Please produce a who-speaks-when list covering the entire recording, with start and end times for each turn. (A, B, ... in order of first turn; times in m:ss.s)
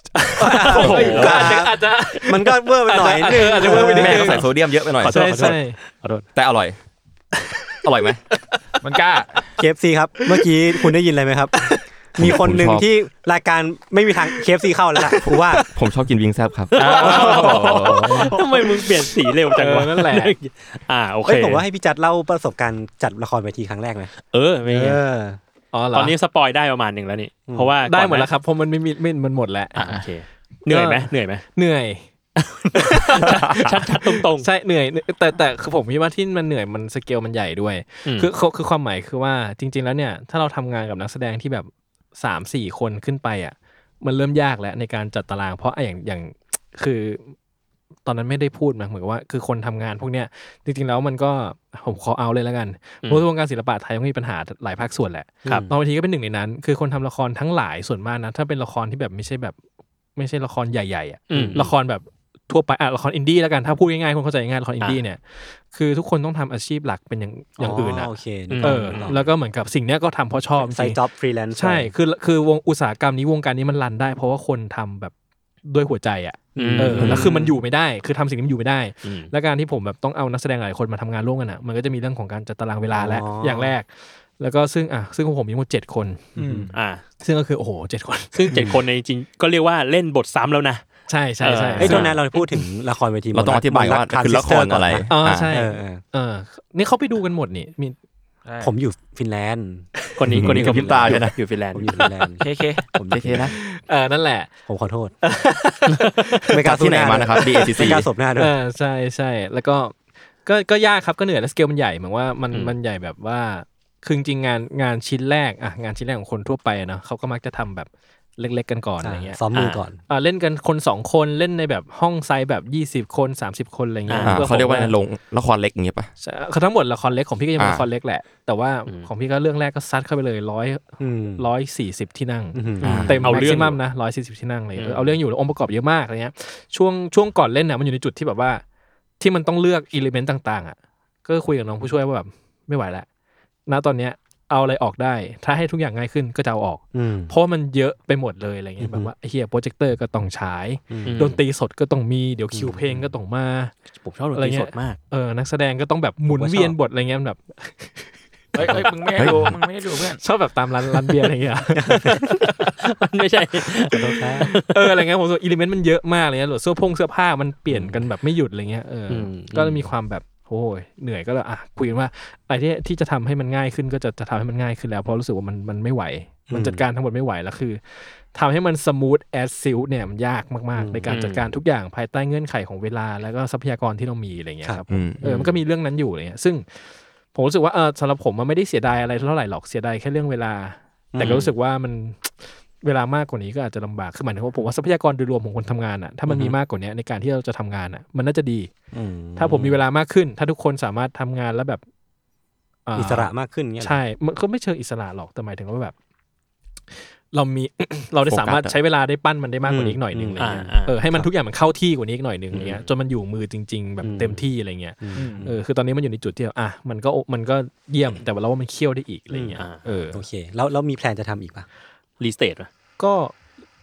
0:00.2-0:04.5 A
0:00.4-0:04.4 B
0:00.6-0:01.6 C
0:00.8-0:01.3 D
0:03.8-0:05.2 D
0:04.0-0:04.4 C
0:05.0-0:06.3 C
0:05.1-0:05.8 A
0:06.4-0:06.8 D
0:07.8-0:08.2 D
0:08.8-0:09.4 E
0:09.6-0:15.6 B
0:12.2-0:12.9 D
0:15.7-0:18.1 D
0:16.8-0:18.3 E
0:16.8-0:21.6 C
0:19.6-0:20.4 A
0:21.2-0:24.1 B
0:24.3-0:25.0 C
0:24.6-0:25.4 B
0:25.7-0:26.1 A
0:25.9-0:28.3 C
0:27.8-0:29.8 A
0:29.8-0:31.4 C
0:29.8-0:30.0 E
0:30.7-0:32.0 A
0:32.4-0:34.5 C
0:32.7-0:47.3 A
0:48.0-0:59.6 A
0:55.4-0:55.7 B
1:00.2-1:11.0 A
1:01.3-1:01.7 C
1:01.3-1:01.6 B
1:07.6-1:09.3 B
1:08.5-1:09.1 C
1:10.6-1:11.9 B
1:11.6-1:15.1 A
1:15.6-1:26.4 A
1:16.6-1:17.3 C
1:16.6-1:17.6 B
1:19.0-1:19.3 C
1:22.9-1:23.7 B
1:26.4-1:26.7 E
1:26.4-1:26.7 B
1:26.7-1:27.0 C
1:27.2-1:28.6 A
1:28.3-1:30.8 C
1:28.5-1:28.8 B
1:31.1-1:32.1 A
1:31.4-1:32.2 C
1:31.8-1:36.0 B
1:33.3-1:35.5 D
1:35.1-1:38.0 A
1:38.4-1:38.7 E
1:38.6-1:39.9 B
1:40.2-1:42.1 C
1:40.3-1:41.3 D
1:40.6-1:41.1 B
1:41.7-1:43.5 B
1:42.4-1:42.9 E
1:43.1-1:43.5 D
1:43.5-1:44.5 A
1:44.7-1:45.2 B
1:45.2-1:46.5 A
1:46.5-1:48.6 B
1:46.6-1:48.1 D
1:47.4-1:47.8 A
1:48.4-1:59.4 A
1:59.0-2:00.0 B
1:59.5-1:59.9 C
2:00.1-2:05.0 A
2:04.1-2:04.4 C
2:04.2-2:06.1 D
2:06.2-2:18.6 A
2:07.6-2:07.9 D
2:11.0-2:11.5 B
2:12.5-2:13.1 B
2:12.8-2:13.8 C
2:12.8-2:13.2 D
2:14.8-2:15.2 C
2:19.2-2:23.1 A
2:23.7-2:33.7 A
2:26.9-2:27.3 B
2:28.8-2:29.1 B
2:30.9-2:31.2 B
2:31.0-2:31.4 C
2:32.5-2:33.1 B
2:34.0-2:35.0 C
2:34.4-2:39.5 A
2:36.3-2:36.8 C
2:38.6-2:40.2 E
2:39.2-2:39.6 D
2:40.2-2:42.7 A
2:41.8-2:42.3 B
2:42.8-2:44.9 C
2:43.9-2:44.5 B
2:44.6-3:18.7 A
2:49.1-2:49.9 C
2:56.5-2:56.8 B
3:00.8-3:01.2 B
3:01.1-3:01.5 C
3:04.9-3:05.2 D
3:11.1-3:11.4 B
3:11.2-3:11.5 C
3:16.3-3:16.6 B
3:18.9-3:19.8 B
3:19.4-3:21.8 A
3:22.9-3:25.9 A
3:23.0-3:24.0 B
3:27.3-3:40.2 A
3:28.3-3:28.8 D
3:29.7-3:31.3 B
3:30.4-3:31.0 C
3:34.0-3:34.4 B
3:35.0-3:35.5 B
3:35.2-3:35.5 E
3:39.3-3:39.6 B
3:40.1-3:41.7 B
3:42.2-3:42.7 C
3:43.0-3:43.3 A